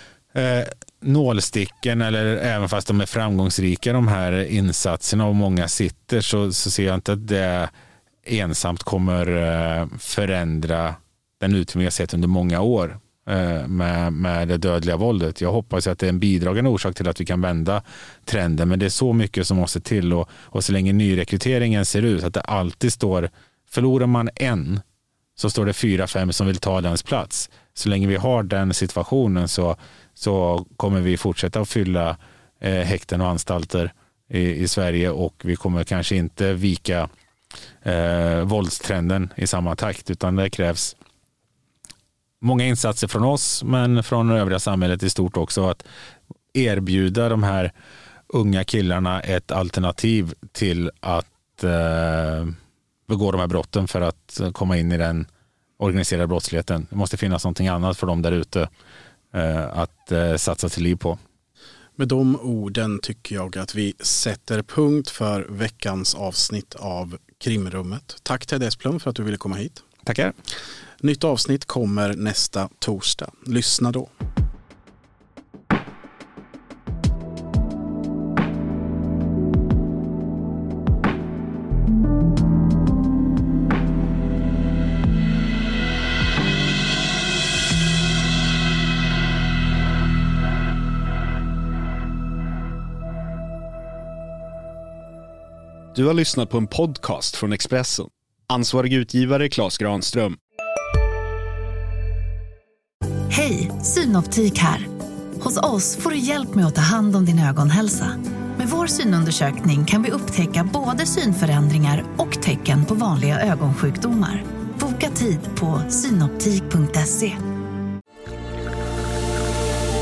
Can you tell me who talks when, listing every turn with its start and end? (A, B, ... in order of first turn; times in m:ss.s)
0:00.3-0:07.7 A
0:08.2-0:24.8 A
0:25.4-0:37.1 A
0:37.8-0:40.9 A
0:42.4-0:45.8 A
0:46.5-0:47.7 A
0:48.3-0:52.5 A
0:53.1-0:55.3 A
0:55.8-0:58.7 A
0:59.3-1:01.2 A
1:02.0-1:09.8 B
1:10.0-1:10.3 A
1:11.0-1:14.1 B
1:35.9-1:40.4 C
1:43.3-1:57.4 D